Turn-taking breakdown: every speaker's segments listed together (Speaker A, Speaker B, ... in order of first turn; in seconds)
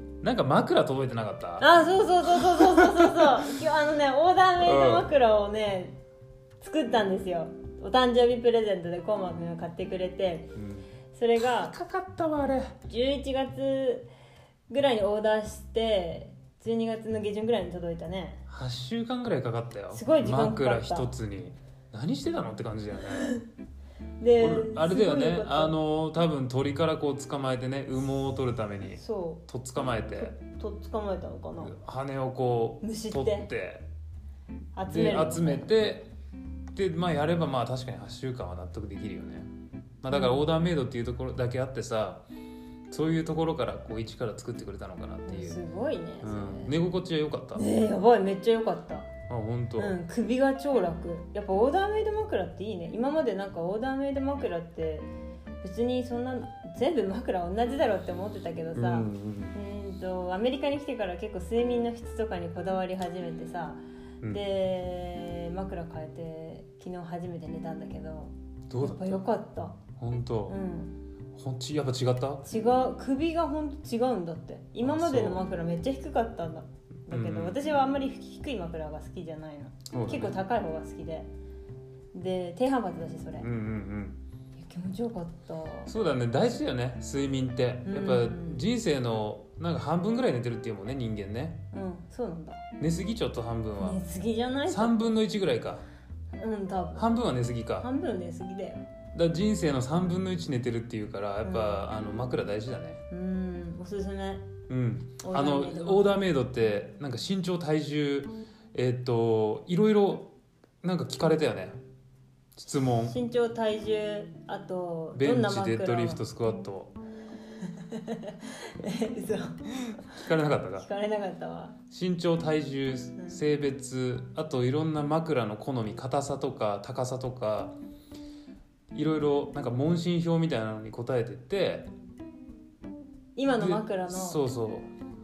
Speaker A: 0.2-3.5, 4.6-5.1, 10.6-12.8, 18.5-23.3, 24.4-30.3, 31.6-33.9, 34.9-36.1, 36.7-39.5, 40.0-42.2, 42.9-45.6, 46.2-47.7, 49.3-50.0, 58.7-59.5, 68.7-69.2, 70.0-70.5, 71.3-72.4, 74.8-75.4, 77.1-77.6, 79.9-80.4, 83.4-84.2, 85.9-91.6, 92.8-94.0, 94.7-95.8, 97.0-97.9, 99.1-103.0, 104.7-111.8, 112.5-113.1, 115.1-116.9, 120.1-120.8, 121.9-127.7, 128.9-131.9, 133.5-134.9
Speaker B: 1.6-6.0, 6.6-10.5, 11.1-11.7, 12.9-14.1, 14.7-18.4, 19.9-21.1, 23.1-23.4, 24.2-25.7, 29.0-29.4, 30.2-31.7, 32.8-33.5, 34.7-35.7, 40.1-40.5, 45.2-46.7, 47.5-49.1, 49.8-55.1, 55.6-69.8, 70.5-71.0, 72.4-81.3, 82.1-83.5, 84.6-85.9, 87.8-88.6, 91.7-92.6, 93.8-95.1, 96.3-97.1, 97.8-98.9, 101.4-101.8, 103.1-104.5, 105.2-106.2, 113.0-116.2, 117.6-120.2, 120.8-121.8, 133.3-134.4